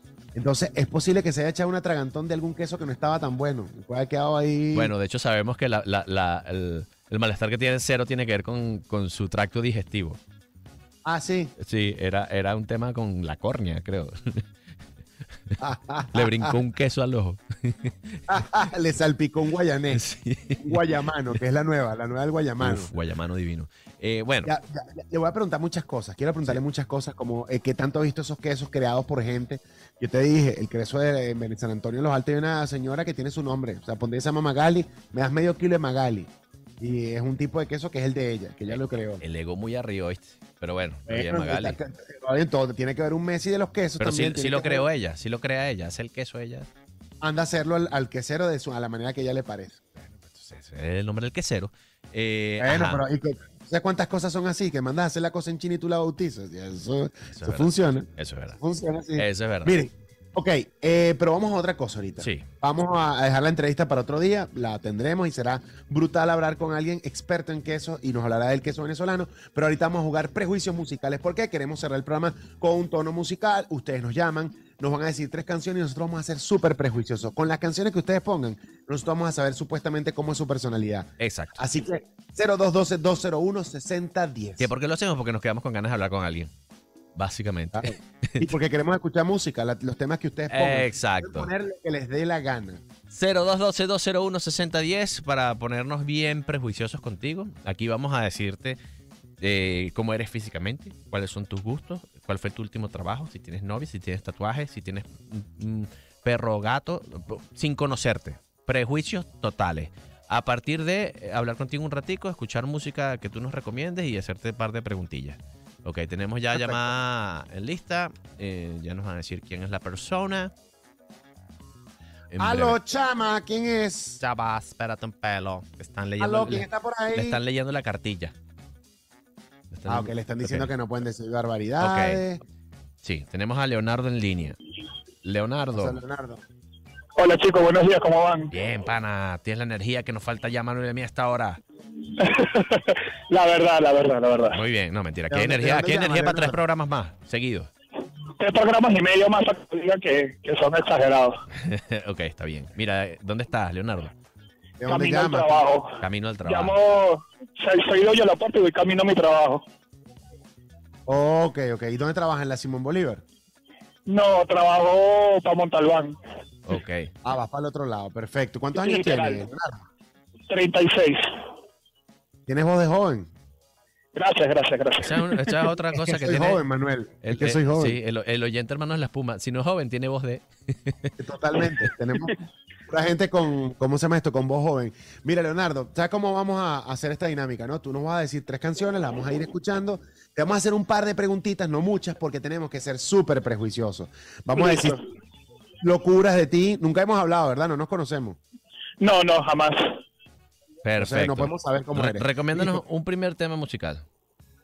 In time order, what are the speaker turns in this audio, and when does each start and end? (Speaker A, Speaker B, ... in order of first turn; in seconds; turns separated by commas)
Speaker A: 0.3-4.9, Speaker B: 4.7-10.2, Speaker A: 11.0-11.5, Speaker B: 11.6-14.4, Speaker A: 15.6-16.6, Speaker B: 16.1-18.4, Speaker A: 18.3-20.0, Speaker B: 19.9-20.9, Speaker A: 20.6-22.9, Speaker B: 22.6-24.5, Speaker A: 24.4-39.2, Speaker B: 38.7-41.8, Speaker A: 41.1-44.9, Speaker B: 44.0-46.7, Speaker A: 47.2-49.8, Speaker B: 50.0-53.0, Speaker A: 52.6-84.7, Speaker B: 57.3-58.6, Speaker B: 59.1-59.8, Speaker B: 62.2-62.5, Speaker B: 81.2-81.6, Speaker B: 84.6-86.5, Speaker B: 87.2-88.5, Speaker A: 87.7-92.8, Speaker B: 90.5-91.5, Speaker B: 93.1-98.8, Speaker B: 99.4-120.5, Speaker A: 116.5-116.8, Speaker B: 122.3-122.8, Speaker A: 122.4-124.2, Speaker B: 124.2-128.3, Speaker A: 126.2-127.4, Speaker B: 129.7-130.7, Speaker A: 129.9-132.4, Speaker B: 131.8-132.2, Speaker B: 133.0-134.6, Speaker B: 135.2-136.0, Speaker A: 135.7-136.4, Speaker C: 137.2-138.5, Speaker B: 138.5-141.6, Speaker C: 142.2-144.6, Speaker B: 144.5-147.7, Speaker A: 145.3-146.6, Speaker C: 148.4-151.3, Speaker B: 151.5-154.1, Speaker A: 154.8-155.6, Speaker C: 154.8-159.6, Speaker B: 156.0-156.8, Speaker A: 161.1-163.2, Speaker C: 164.1-166.2, Speaker B: 166.7-167.1, Speaker A: 167.2-169.9, Speaker C: 168.7-169.4, Speaker C: 170.5-171.2, Speaker A: 172.5-173.3, Speaker C: 174.1-175.5, Speaker B: 175.0-176.6, Speaker A: 175.9-178.0, Speaker B: 177.2-181.1, Speaker A: 181.2-182.3, Speaker A: 182.9-195.0, Speaker C: 194.5-195.0, Speaker A: 195.8-198.4, Speaker C: 199.0-199.8, Speaker B: 200.8-204.1, Speaker A: 201.0-202.8